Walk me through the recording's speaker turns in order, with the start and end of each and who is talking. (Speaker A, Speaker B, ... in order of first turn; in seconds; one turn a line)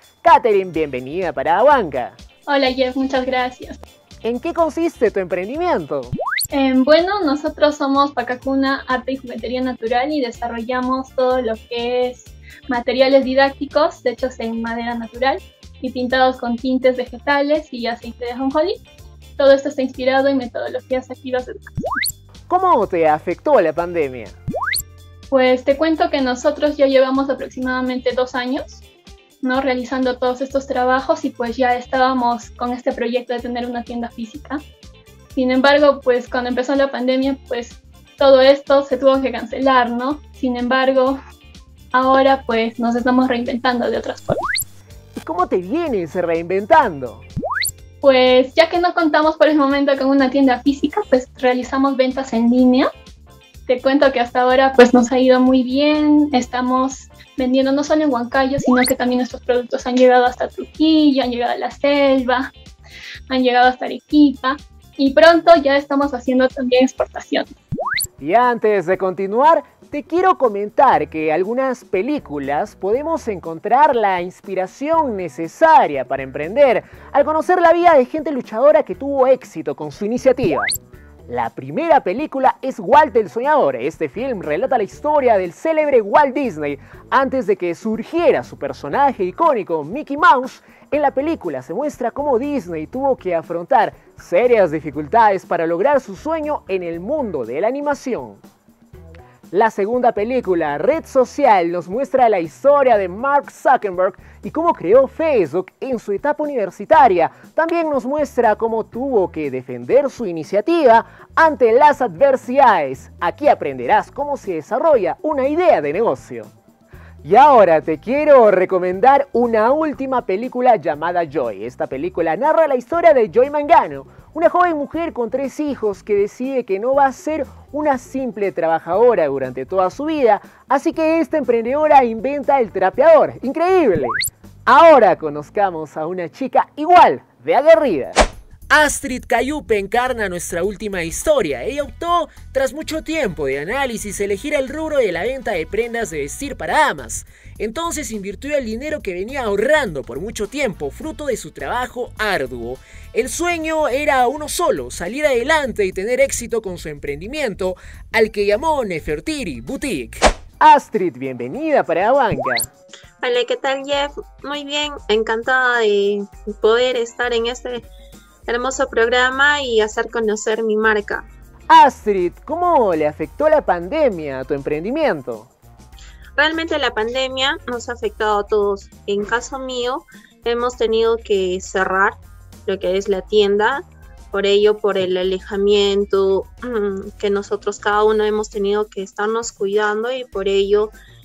Speaker A: 0.2-2.2
Speaker B: 2.5-3.8
Speaker A: 4.2-6.1
Speaker B: 6.5-18.8
Speaker B: 19.4-21.8
Speaker A: 22.5-24.3
Speaker B: 25.3-28.8
Speaker B: 29.4-34.6
Speaker B: 35.3-41.2
Speaker B: 41.9-44.5
Speaker A: 45.2-47.2
Speaker B: 48.0-52.9
Speaker B: 53.7-62.5
Speaker B: 63.3-67.5
Speaker A: 68.2-80.7
Speaker A: 81.3-98.4
Speaker A: 99.5-116.5
Speaker A: 117.2-138.2
Speaker A: 138.7-162.7
Speaker C: 163.2-167.9
Speaker C: 168.5-171.3
Speaker A: 171.7-175.5
Speaker C: 176.3-190.9